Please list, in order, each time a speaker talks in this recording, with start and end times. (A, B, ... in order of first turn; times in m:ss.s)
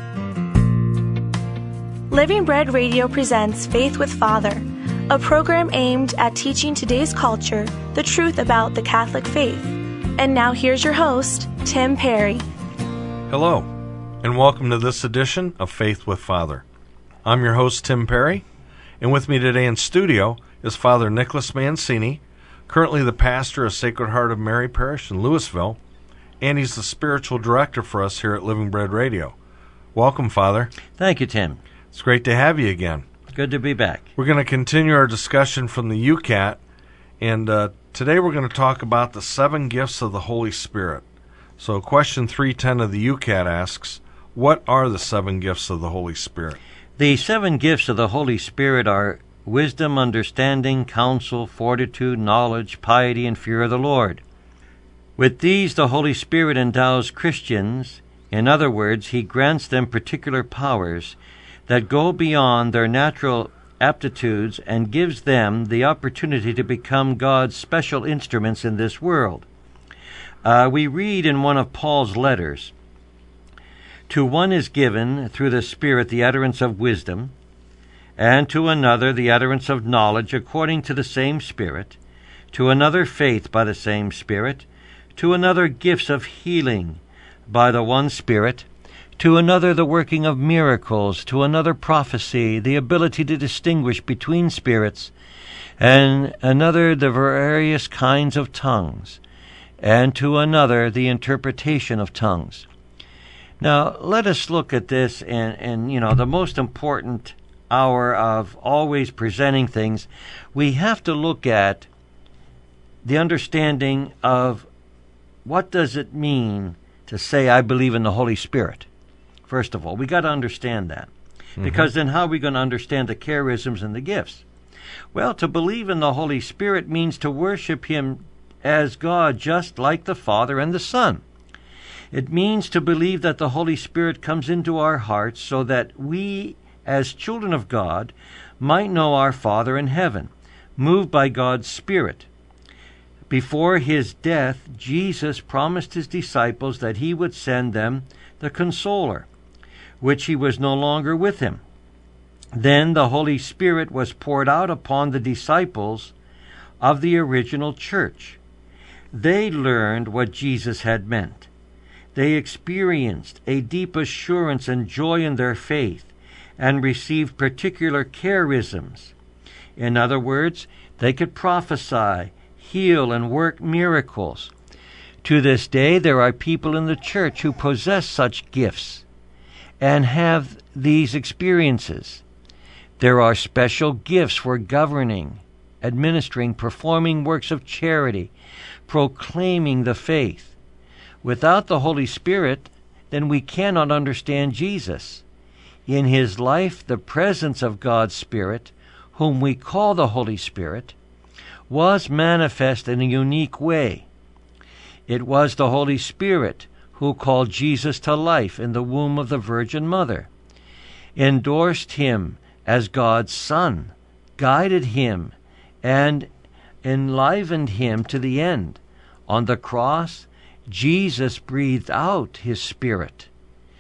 0:02.1-0:12.4 A
0:13.3-0:13.7 B
0:14.2-0:16.6 B
0:17.2-0:18.4 B
0:19.0-0:25.8 B
0:26.4-0:29.4 B
0:29.9-0:30.7 B
0:31.0-0:31.6 C
0:31.9-0:33.0 B
0:33.3-0:34.0 C
0:34.2-0:36.6 B
0:37.2-0:41.0 B
0:41.6-0:46.6 B
0:47.0-0:54.2 C
0:55.2-1:09.5 C
1:10.4-1:12.7 C
1:14.1-1:17.3 C
1:18.2-1:22.0 C
1:22.5-1:28.7 C
1:29.2-1:35.1 C
1:35.8-1:39.2 C
1:39.8-1:42.7 C
1:43.6-1:51.9 C
1:53.0-1:54.7 C
1:55.4-1:58.9 C
1:59.5-2:04.4 C
2:01.6-2:01.9 B
2:05.1-2:11.2 C
2:12.1-2:22.3 C
2:23.3-2:29.3 C
2:30.0-2:31.6 C
2:32.5-2:36.1 C
2:36.8-2:38.4 C
2:39.1-2:41.5 C
2:42.1-2:49.1 C
2:49.8-2:54.5 C
2:55.2-2:59.0 C
2:59.8-3:02.2 C
3:03.0-3:08.3 C
3:08.9-3:10.5 C
3:11.2-3:15.2 C
3:15.9-3:20.9 C
3:21.7-3:24.1 C
3:25.1-3:30.3 C
3:31.2-3:36.3 C
3:36.8-3:43.3 C